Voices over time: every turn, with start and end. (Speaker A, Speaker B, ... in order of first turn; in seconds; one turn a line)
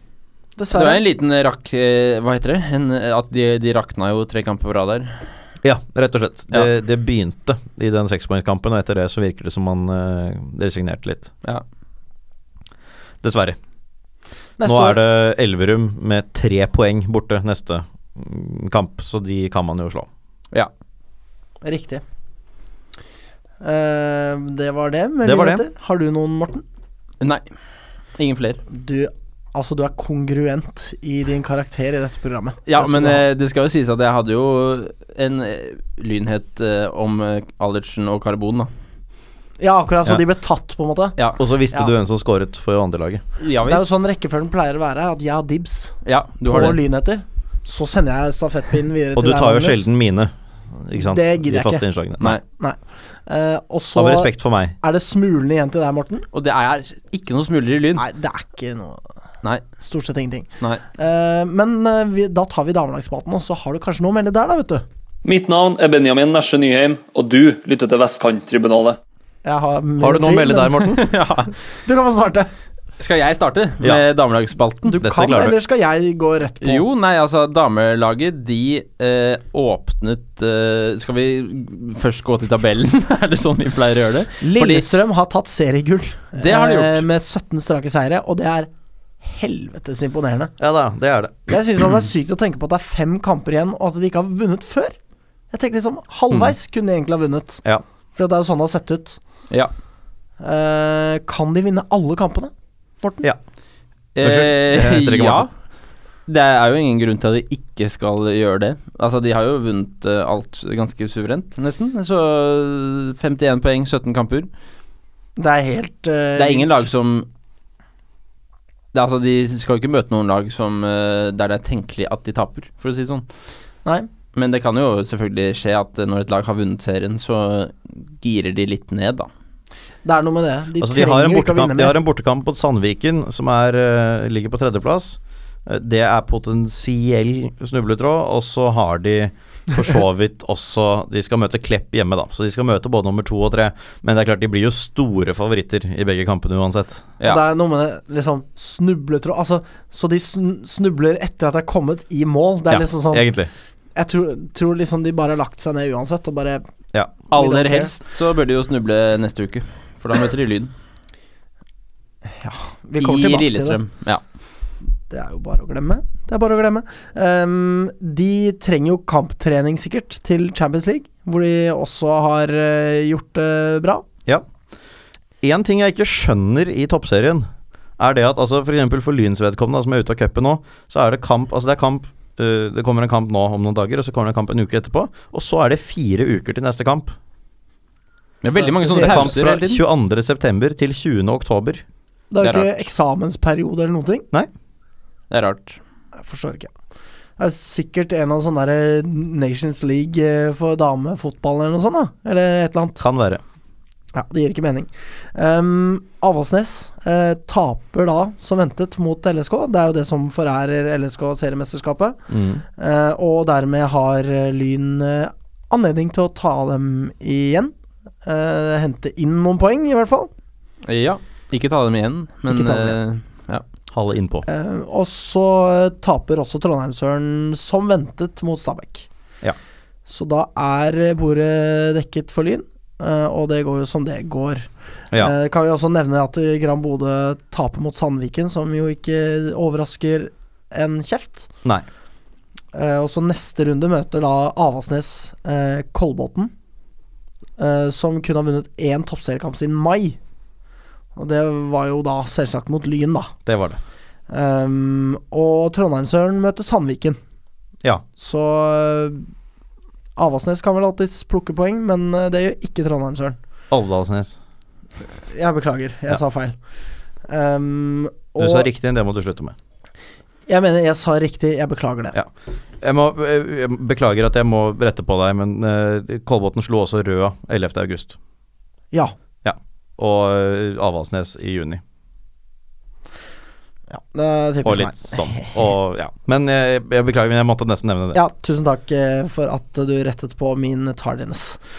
Speaker A: 0.6-1.0
Speaker B: 0.7-5.2
Speaker C: 5.6-11.3
Speaker C: 13.2-13.6
Speaker A: 14.6-15.0
Speaker C: 14.6-20.1
Speaker A: 21.6-22.0
Speaker A: 23.6-26.6
Speaker C: 25.2-25.6
Speaker B: 28.2-28.6
Speaker A: 28.7-33.2
Speaker B: 32.7-38.7
Speaker A: 39.6-41.2
Speaker C: 41.4-43.2
Speaker B: 43.4-44.0
Speaker A: 43.6-49.8
Speaker B: 46.0-46.8
Speaker C: 49.1-52.4
Speaker A: 50.9-51.8
Speaker A: 52.5-56.3
Speaker C: 53.9-54.8
Speaker B: 56.3-58.0
Speaker A: 58.0-59.0
Speaker A: 59.8-64.8
Speaker D: 65.2-69.0
Speaker A: 69.4-71.0
Speaker C: 70.0-71.1
Speaker B: 70.9-71.5
Speaker A: 71.8-72.5
Speaker B: 73.0-75.0
Speaker A: 74.8-76.8
Speaker C: 75.0-75.5
Speaker B: 76.6-84.9
Speaker A: 84.4-88.7
Speaker B: 86.4-87.0
Speaker A: 89.2-90.5
Speaker C: 90.6-91.5
Speaker A: 91.5-95.0
Speaker A: 95.5-97.6
Speaker A: 98.1-99.2
Speaker A: 100.4-103.2
Speaker B: 104.2-105.5
Speaker C: 104.2-105.5
Speaker B: 106.3-114.5
Speaker A: 115.4-116.8
Speaker B: 116.3-117.3
Speaker B: 118.9-123.2
Speaker B: 124.3-129.3
Speaker A: 130.0-131.9
Speaker C: 130.8-147.1
Speaker A: 147.2-153.3
Speaker C: 152.7-153.5
Speaker A: 153.9-156.6
Speaker B: 157.3-160.7
Speaker A: 157.3-157.9
Speaker A: 162.3-163.8
Speaker B: 163.0-164.2
Speaker A: 165.1-174.0
Speaker C: 175.4-187.1
Speaker B: 188.4-189.8
Speaker A: 188.6-189.3
Speaker C: 188.9-191.8
Speaker A: 192.3-194.2
Speaker B: 192.4-192.8
Speaker B: 195.3-195.8
Speaker A: 196.2-196.7
Speaker A: 197.4-203.0
Speaker C: 203.0-203.4
Speaker A: 204.1-212.2
Speaker C: 212.3-212.6
Speaker A: 212.8-217.7
Speaker A: 218.2-220.3
Speaker B: 220.8-223.6
Speaker A: 222.5-223.0
Speaker C: 223.9-224.4
Speaker A: 224.4-229.1
Speaker A: 230.1-241.5
Speaker A: 242.7-246.5
Speaker A: 247.6-250.2
Speaker A: 251.2-253.3
Speaker C: 253.4-253.8
Speaker A: 254.3-257.2
Speaker A: 258.2-259.3
Speaker A: 260.1-263.4
Speaker C: 263.7-264.4
Speaker A: 265.2-266.5
Speaker A: 267.3-268.7
Speaker C: 268.4-269.6
Speaker A: 270.5-272.1
Speaker C: 272.1-278.2
Speaker C: 279.4-281.8
Speaker A: 283.9-285.6
Speaker C: 284.6-288.2
Speaker A: 288.1-291.6